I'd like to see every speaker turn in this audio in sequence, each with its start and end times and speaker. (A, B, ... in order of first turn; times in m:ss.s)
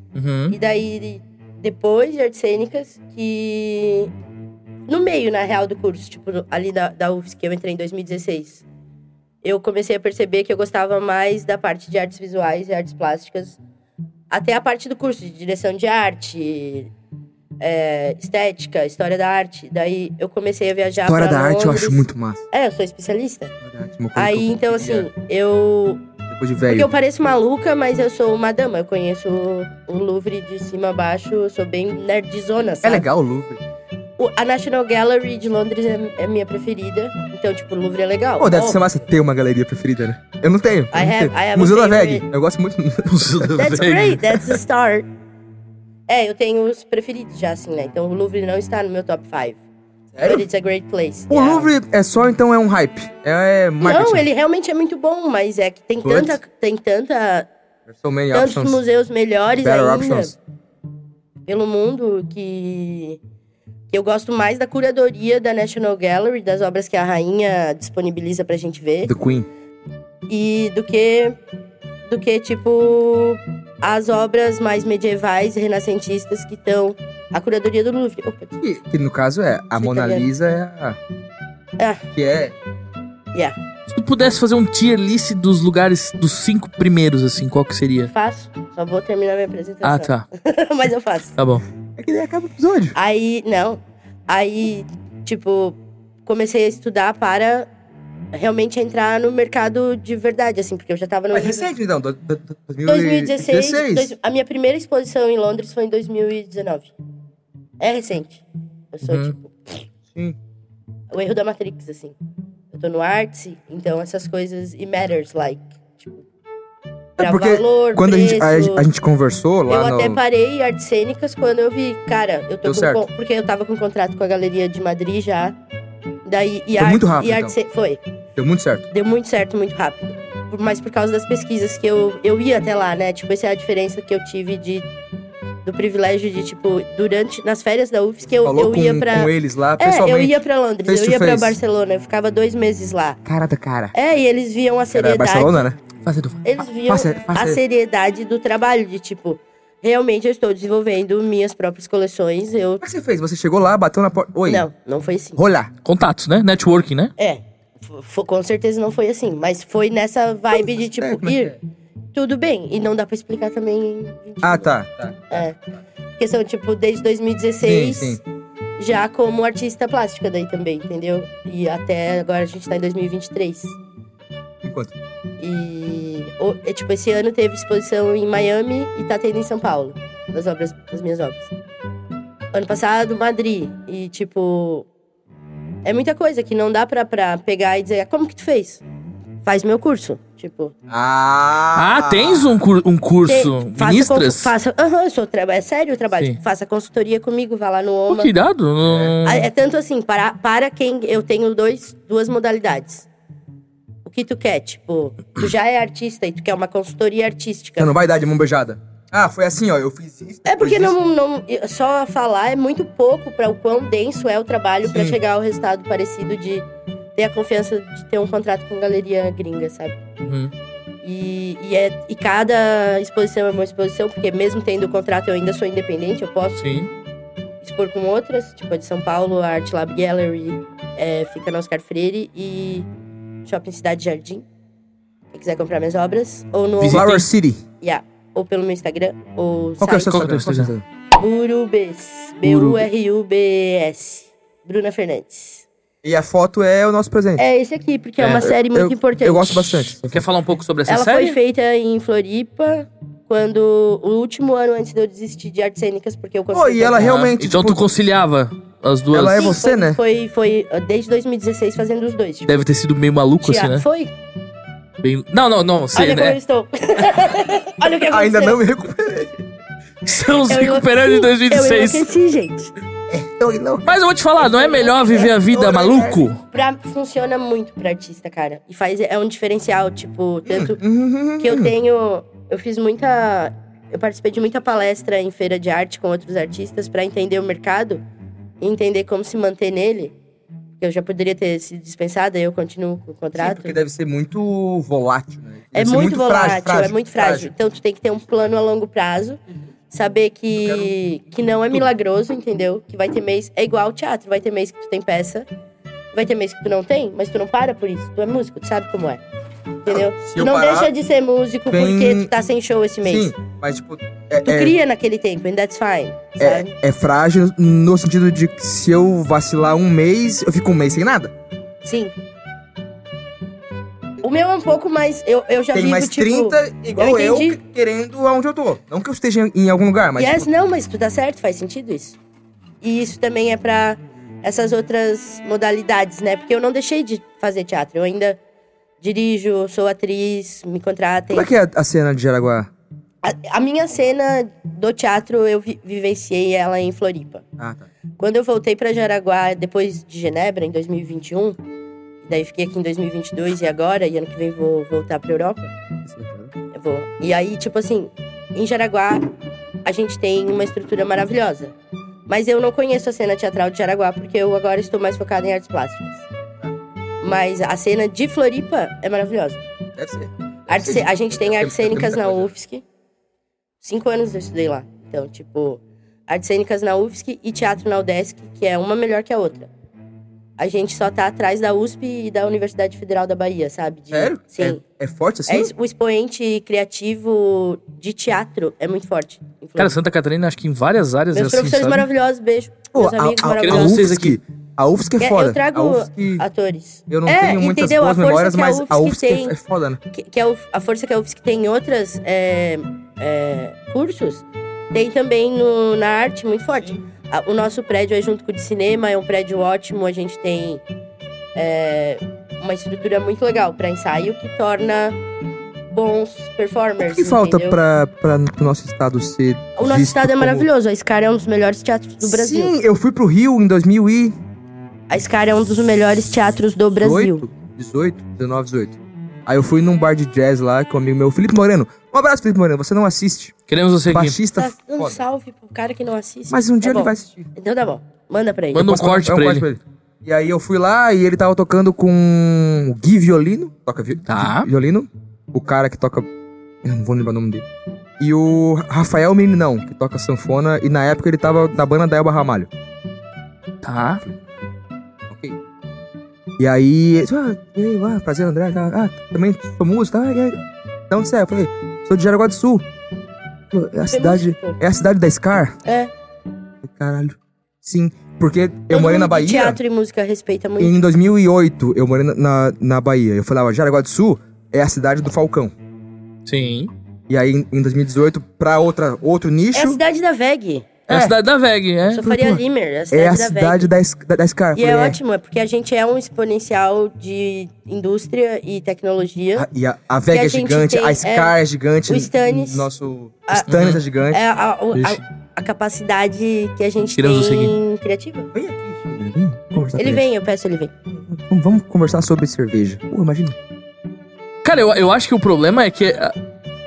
0:00.1-0:00.6 A
0:00.5-0:04.1 B
0:04.9-0:08.6 B
0:09.4-0:13.6 B
0:14.3-0:16.9 B
0:17.6-0:23.5 B
0:21.0-0:22.4 C
0:23.6-0:25.1 C
0:24.1-0:26.0 B
0:26.3-0:26.9 C
0:26.7-0:33.0 B
0:32.8-0:33.6 C
0:34.2-0:38.8 B
0:38.4-0:43.7 C
0:40.9-0:42.2 B
0:43.1-0:44.6 A
0:43.6-0:45.1 B
0:46.1-0:49.6 B
0:50.1-0:50.4 C
0:50.2-0:51.7 B
0:51.3-0:54.2 C
0:53.8-0:57.5 B
0:56.0-0:56.4 C
0:57.9-0:58.8 C
0:58.3-1:00.3 B
0:59.6-1:00.3 C
1:01.5-1:03.2 B
1:03.9-1:09.1 B
1:09.0-1:09.5 C
1:10.3-1:11.4 B
1:12.1-1:18.5 B
1:18.6-1:21.0 C
1:19.8-1:20.3 B
1:21.8-1:22.0 B
1:22.1-1:22.5 C
1:23.9-1:28.1 A
1:28.1-1:31.3 B
1:29.8-1:30.2 A
1:31.4-1:31.6 A
1:32.0-1:33.0 C
1:32.9-1:37.7 B
1:38.3-1:41.7 B
1:41.3-1:44.1 C
1:42.8-1:46.9 B
1:47.8-1:49.8 B
1:49.1-1:49.3 A
1:51.1-1:52.1 B
1:52.7-1:56.2 B
1:57.2-2:00.2 C
1:57.2-1:58.9 B
1:59.7-2:05.6 B
2:02.6-2:03.0 C
2:06.2-2:08.0 B
2:06.8-2:07.5 C
2:08.4-2:08.9 C
2:08.9-2:14.9 B
2:15.6-2:23.2 B
2:18.4-2:21.6 C
2:23.2-2:23.9 C
2:23.9-2:25.6 B
2:24.9-2:27.6 C
2:26.4-2:32.8 B
2:32.8-2:34.6 C
2:34.5-2:35.4 B
2:35.4-2:35.7 C
2:35.8-2:37.1 A
2:37.2-2:41.6 B
2:40.5-2:41.6 C
2:42.1-2:44.7 B
2:44.4-2:45.4 C
2:45.3-2:45.6 B
2:46.2-2:48.2 B
2:47.6-2:48.2 C
2:48.8-2:53.8 B
2:54.6-2:54.9 C
2:55.4-3:01.5 B
3:02.5-3:04.9 B
3:05.8-3:08.8 B
3:09.4-3:10.7 B
3:10.9-3:12.6 C
3:11.8-3:14.5 A
3:13.2-3:18.3 B
3:18.1-3:19.5 A
3:18.8-3:19.1 C
3:19.2-3:23.1 B
3:24.0-3:27.9 B
3:27.8-3:31.0 C
3:30.4-3:36.6 B
3:34.8-3:35.2 C
3:37.2-3:40.0 B
3:40.2-3:40.5 A
3:41.0-3:46.7 B
3:46.6-3:46.9 A
3:47.6-3:52.9 B
3:53.4-3:54.4 B
3:55.3-3:57.0 B
3:56.8-3:57.3 A
3:56.9-3:57.6 C
3:57.8-4:00.3 B
3:59.8-4:00.8 C
4:00.1-4:00.7 A
4:01.2-4:05.6 B
4:02.4-4:02.9 A
4:06.0-4:07.4 C
4:07.4-4:09.9 B
4:08.2-4:08.5 A
4:08.7-4:10.2 C
4:10.0-4:11.4 A
4:10.9-4:17.2 B
4:16.5-4:17.8 C
4:17.0-4:19.5 A
4:19.1-4:20.0 C
4:19.3-4:22.6 B
4:22.5-4:23.8 A
4:23.4-4:24.1 B
4:25.0-4:26.4 A
4:25.9-4:28.6 B
4:28.1-4:29.4 C
4:30.0-4:32.1 A
4:30.5-4:32.7 B
4:33.1-4:34.0 C
4:33.8-4:36.4 A
4:34.4-4:35.3 B
4:35.5-4:36.2 C
4:36.4-4:40.8 B
4:40.5-4:41.7 C
4:41.4-4:48.0 B
4:48.6-4:50.1 B
4:50.8-4:53.8 B
4:53.3-4:57.5 C
4:55.7-4:59.4 B
4:59.9-5:05.4 B
5:00.6-5:00.9 C
5:06.1-5:09.2 B
5:09.8-5:13.3 B
5:09.9-5:10.9 C
5:11.7-5:12.3 C
5:13.0-5:14.8 C
5:14.4-5:16.7 B
5:16.4-5:21.3 C
5:21.8-5:22.1 B
5:24.2-5:27.6 B
5:25.7-5:30.5 C
5:30.2-5:32.2 B
5:32.8-5:38.4 B
5:39.0-5:41.5 B
5:41.3-5:42.7 C
5:43.2-5:47.4 B
5:47.6-5:47.9 C
5:48.2-5:51.6 B
5:52.2-5:55.7 B
5:56.0-5:56.5 C
5:56.7-5:59.3 B
5:59.8-6:01.7 B
6:02.3-6:06.2 B
6:07.2-6:09.6 B
6:10.0-6:12.5 C
6:10.7-6:12.8 B
6:13.8-6:19.7 B
6:20.6-6:24.8 B
6:24.1-6:25.7 C
6:25.5-6:29.9 B
6:29.8-6:32.0 A
6:31.3-6:34.0 B
6:32.9-6:36.4 C
6:33.5-6:34.4 A
6:35.2-6:39.6 B
6:37.1-6:40.0 C
6:40.1-6:50.8 B
6:51.5-6:55.2 B
6:55.9-6:57.8 B
6:57.0-7:00.7 C
6:59.8-7:02.7 B
7:02.2-7:04.4 C
7:05.1-7:07.5 B
7:07.0-7:13.5 C
7:13.7-7:14.4 A
7:14.1-7:15.2 C
7:14.6-7:18.9 B
7:16.5-7:17.5 C
7:18.7-7:19.6 A
7:18.7-7:26.3 C
7:24.3-7:24.7 A
7:26.8-7:27.6 C
7:28.2-7:32.7 C
7:33.8-7:34.2 A
7:35.3-7:35.6 C
7:36.6-7:40.6 C
7:41.1-7:42.8 C
7:43.7-7:45.8 C
7:44.1-7:44.8 B
7:45.8-7:46.1 B
7:46.8-7:49.8 C
7:48.9-7:50.9 B
7:50.8-7:55.7 C
7:56.4-7:56.9 A
7:57.3-8:00.0 C
7:59.7-8:01.0 B
8:01.1-8:01.4 C
8:01.1-8:02.3 A
8:02.1-8:03.9 B
8:02.2-8:05.2 C
8:04.7-8:09.7 B
8:09.6-8:14.4 C
8:10.3-8:11.5 B
8:12.1-8:12.9 B
8:13.5-8:18.5 B
8:13.7-8:14.0 A
8:14.9-8:15.2 A
8:17.2-8:17.7 A
8:18.5-8:20.2 C
8:20.0-8:20.9 B
8:21.3-8:23.6 C
8:24.6-8:26.3 A